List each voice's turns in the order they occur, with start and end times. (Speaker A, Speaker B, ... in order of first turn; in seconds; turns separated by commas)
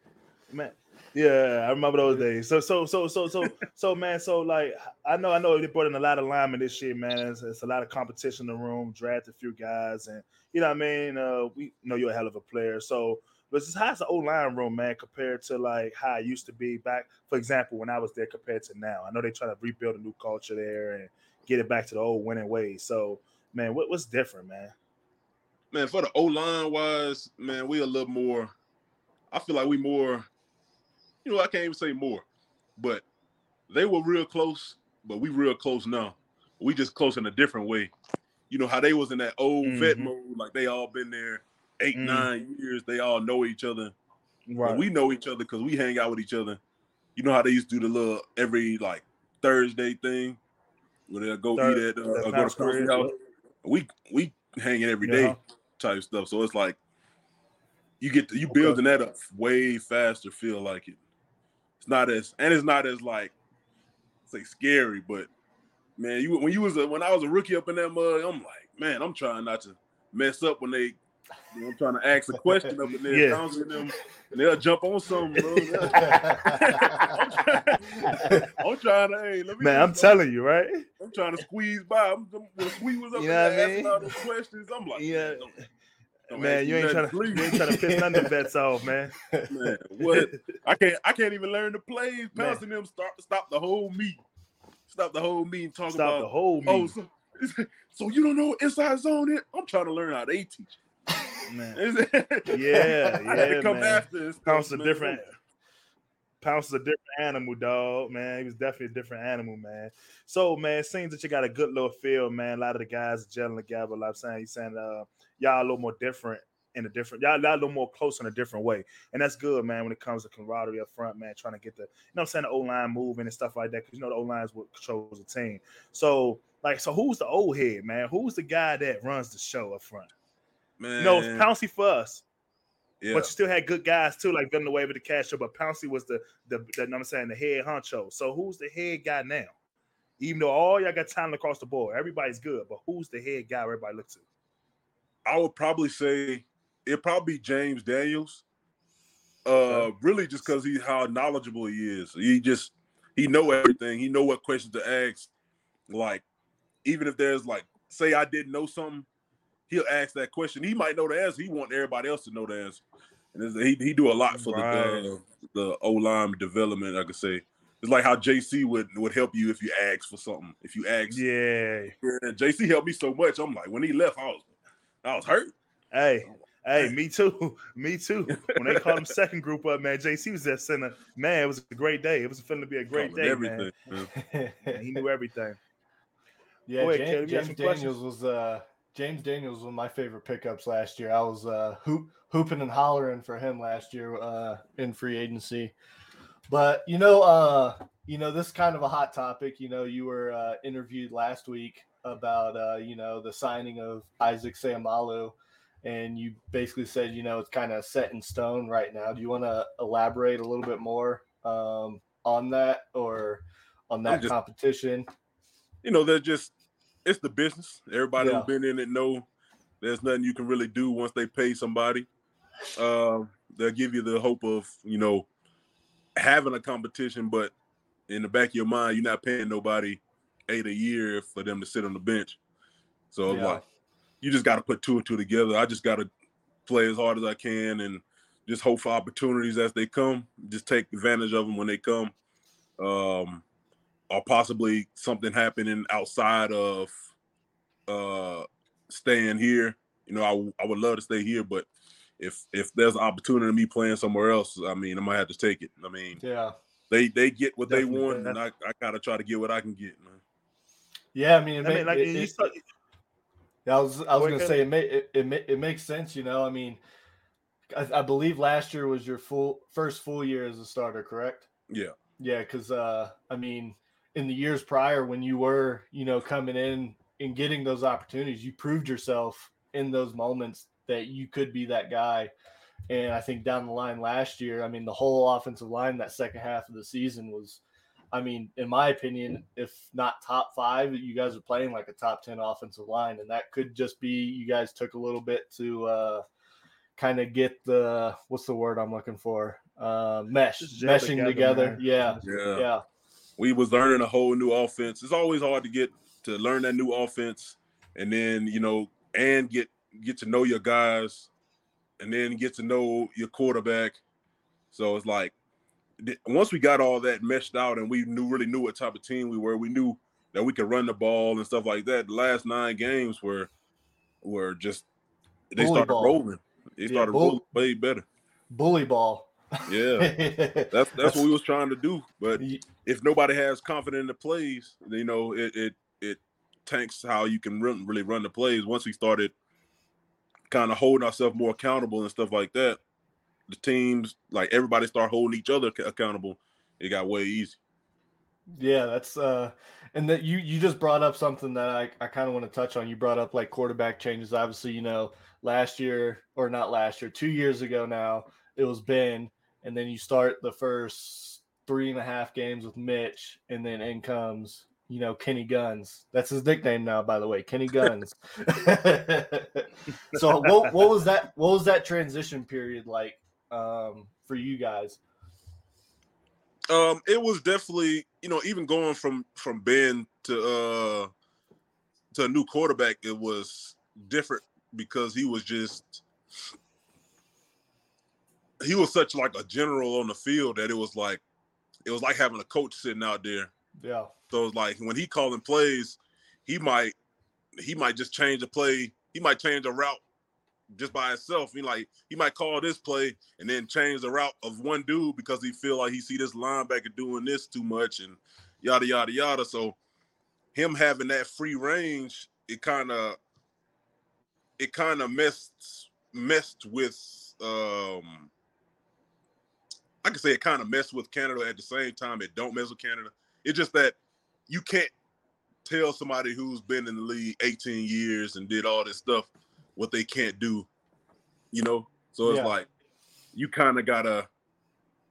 Speaker A: 0.5-24.7, Speaker B: 25.7-28.5, Speaker B: 29.3-30.3, Speaker B: 31.2-32.2, Speaker B: 32.8-33.0, Speaker B: 33.7-37.9, Speaker B: 38.5-43.9, Speaker A: 39.6-40.1, Speaker A: 42.0-42.3, Speaker A: 44.5-44.9, Speaker B: 44.6-46.6, Speaker B: 47.2-50.4, Speaker B: 51.1-53.1, Speaker A: 51.6-53.1, Speaker B: 53.6-56.8, Speaker A: 55.0-55.4, Speaker B: 58.0-61.0, Speaker A: 58.5-58.8, Speaker B: 61.8-63.3, Speaker B: 64.3-65.3, Speaker B: 66.0-71.0, Speaker B: 71.5-80.2, Speaker A: 73.1-73.4, Speaker C: 75.9-77.2, Speaker A: 76.0-76.9, Speaker A: 78.1-78.5, Speaker A: 79.6-80.9, Speaker B: 81.0-85.5, Speaker A: 83.1-84.2, Speaker A: 85.0-85.5, Speaker A: 86.3-89.2, Speaker B: 86.3-87.6, Speaker C: 87.5-88.3, Speaker B: 89.5-94.2, Speaker A: 90.1-90.4, Speaker A: 92.3-92.6, Speaker B: 94.9-100.8, Speaker A: 95.9-96.9, Speaker A: 101.5-101.8, Speaker B: 101.8-105.2, Speaker A: 102.5-105.3, Speaker A: 106.4-130.1, Speaker B: 130.8-131.5, Speaker A: 131.0-132.2, Speaker B: 133.0-133.3, Speaker A: 133.1-139.5, Speaker A: 140.2-144.2, Speaker B: 145.3-148.4, Speaker B: 149.5-155.3, Speaker A: 149.7-149.9, Speaker B: 155.9-156.2, Speaker B: 156.8-159.1, Speaker B: 159.7-162.8, Speaker B: 163.3-171.2, Speaker A: 164.3-165.0, Speaker A: 171.1-171.9, Speaker B: 172.0-174.5, Speaker B: 175.0-175.5, Speaker A: 175.9-183.7, Speaker B: 178.4-179.1, Speaker B: 182.9-184.1, Speaker C: 184.2-184.8, Speaker A: 184.7-185.6, Speaker C: 186.7-195.7, Speaker A: 186.8-187.9, Speaker C: 196.5-215.1, Speaker B: 214.1-214.3, Speaker B: 215.8-216.5, Speaker B: 217.1-219.3, Speaker C: 218.2-218.5, Speaker B: 219.8-222.1, Speaker B: 222.8-225.3, Speaker B: 226.2-227.5, Speaker B: 228.1-232.4, Speaker B: 233.1-233.6, Speaker C: 233.3-233.6, Speaker B: 234.2-236.1, Speaker B: 236.7-242.1, Speaker B: 242.8-243.4, Speaker B: 244.1-246.9, Speaker B: 247.9-251.7, Speaker B: 252.2-256.2, Speaker C: 256.2-256.6, Speaker B: 256.9-260.2, Speaker A: 257.7-258.4, Speaker C: 261.1-262.5, Speaker A: 261.6-262.6, Speaker C: 263.7-266.8, Speaker A: 264.1-264.6, Speaker C: 267.7-271.5, Speaker B: 271.7-271.9, Speaker C: 272.2-282.3, Speaker C: 282.9-287.6, Speaker C: 288.1-296.2, Speaker C: 297.0-302.8, Speaker A: 300.6-302.3, Speaker B: 302.2-302.7, Speaker B: 303.4-311.3, Speaker B: 312.0-314.0, Speaker B: 314.7-315.3, Speaker B: 316.0-323.5, Speaker B: 324.2-324.9, Speaker B: 325.5-328.1, Speaker C: 325.6-326.2, Speaker C: 326.8-327.4, Speaker C: 328.5-331.2, Speaker B: 329.7-339.3, Speaker B: 340.5-342.8, Speaker B: 343.5-347.6, Speaker C: 348.5-375.0, Speaker A: 370.1-370.7, Speaker B: 376.7-381.1, Speaker B: 382.1-386.1, Speaker B: 388.6-391.2, Speaker B: 391.9-393.5, Speaker C: 393.8-394.1, Speaker B: 394.3-396.9, Speaker B: 397.6-400.0, Speaker B: 400.7-409.8, Speaker B: 410.5-413.2, Speaker B: 414.6-418.3, Speaker B: 420.0-424.0, Speaker B: 424.5-424.9, Speaker B: 425.6-430.7, Speaker B: 431.5-432.7, Speaker C: 432.2-432.5, Speaker B: 433.3-434.3